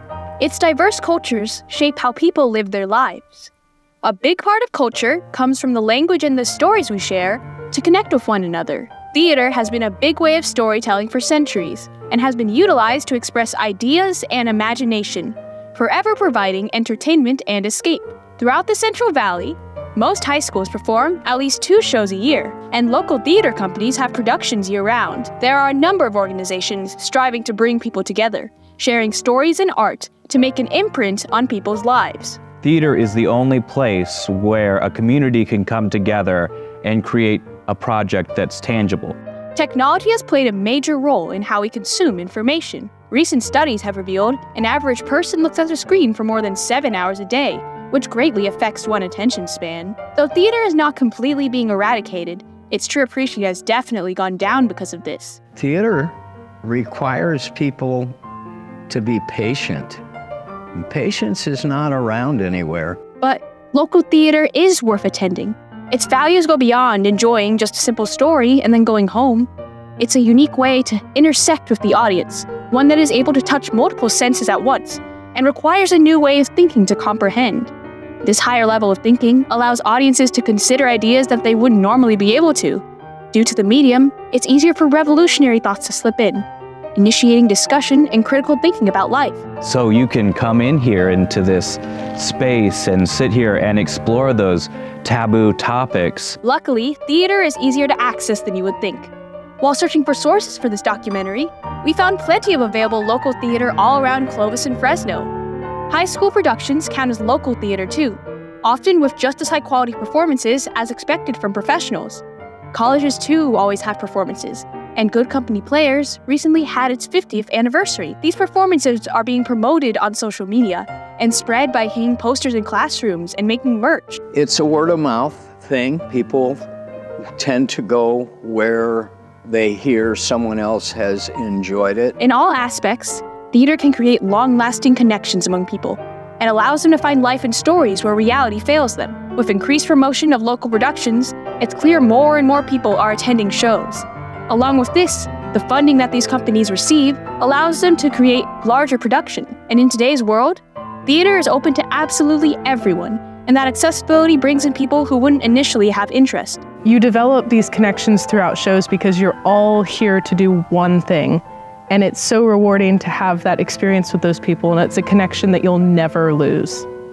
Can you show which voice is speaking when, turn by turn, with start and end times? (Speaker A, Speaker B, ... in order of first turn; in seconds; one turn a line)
Speaker A: 0.4-3.5
Speaker A: 4.0-32.4
Speaker B: 32.6-39.2
Speaker A: 39.5-55.4
Speaker C: 55.6-58.1
Speaker C: 58.9-60.0
Speaker C: 60.8-63.0
Speaker A: 63.2-77.7
Speaker A: 78.2-89.4
Speaker B: 89.6-96.4
Speaker A: 96.4-105.3
Speaker A: 105.9-124.2
Speaker C: 124.3-126.6
Speaker C: 127.4-132.2
Speaker A: 132.2-156.7
Speaker D: 156.8-166.8